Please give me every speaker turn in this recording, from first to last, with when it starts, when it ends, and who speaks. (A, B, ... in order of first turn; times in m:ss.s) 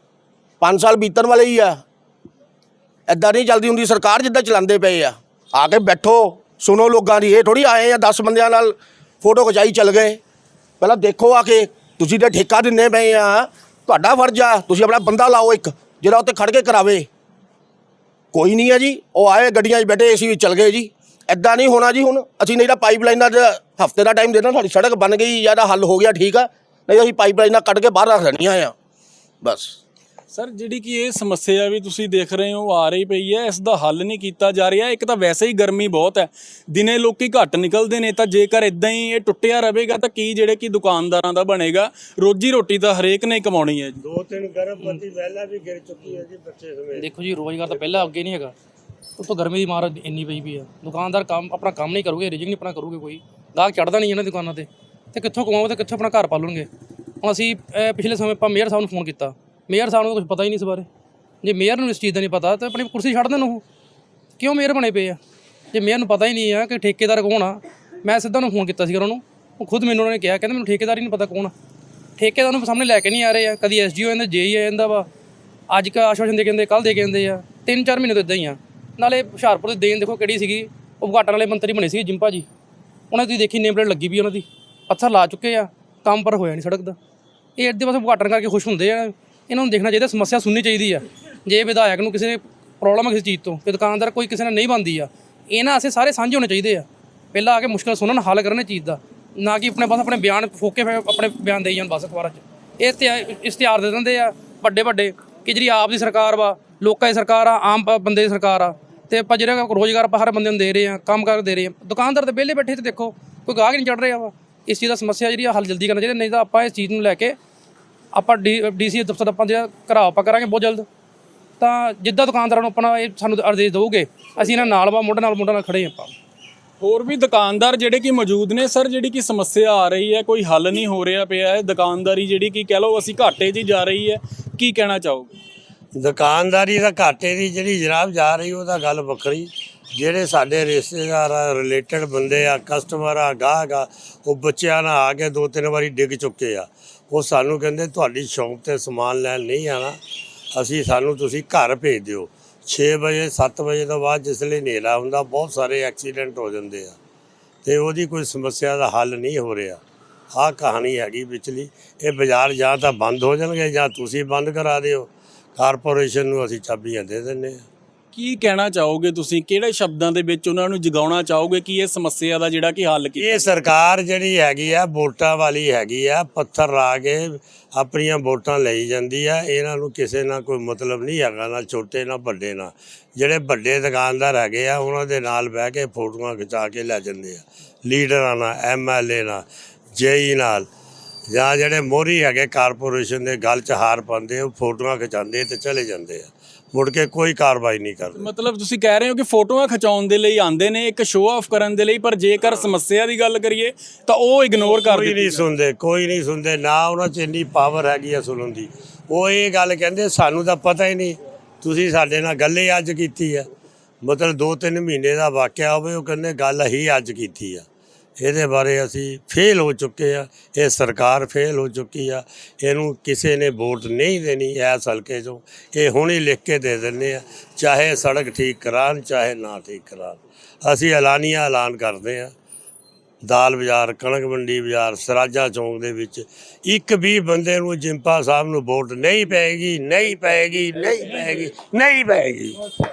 0:00.6-0:01.8 A
0:03.1-0:10.2 A
0:10.8-0:17.0 A
0:18.3-0:28.7 A
0:29.4-0:29.7 A
0:30.3-0:44.0 B
0:44.0-0:47.1 C
0:46.9-0:48.5 D
0:49.2-0:56.7 D
0:57.2-1:00.9 D
1:01.4-1:03.6 D
1:04.4-1:05.2 D
1:05.7-1:11.5 D
1:12.2-1:15.1 D
1:15.7-1:22.5 D
1:23.1-1:27.0 D
1:27.6-1:57.4 D
1:58.1-2:00.8 D
2:01.6-2:06.1 D
2:06.8-2:15.3 B
2:16.0-2:30.0 C
2:30.5-2:37.0 C
2:37.6-2:39.8 C
2:40.3-2:47.6 C
2:48.1-2:53.5 B
2:53.2-3:10.7 C
3:11.3-3:18.3 C
3:18.2-3:25.4 B
3:22.4-3:22.7 C
3:24.8-3:33.5 C
3:34.0-3:37.6 C
3:38.2-3:52.3 C
3:53.2-4:02.6 C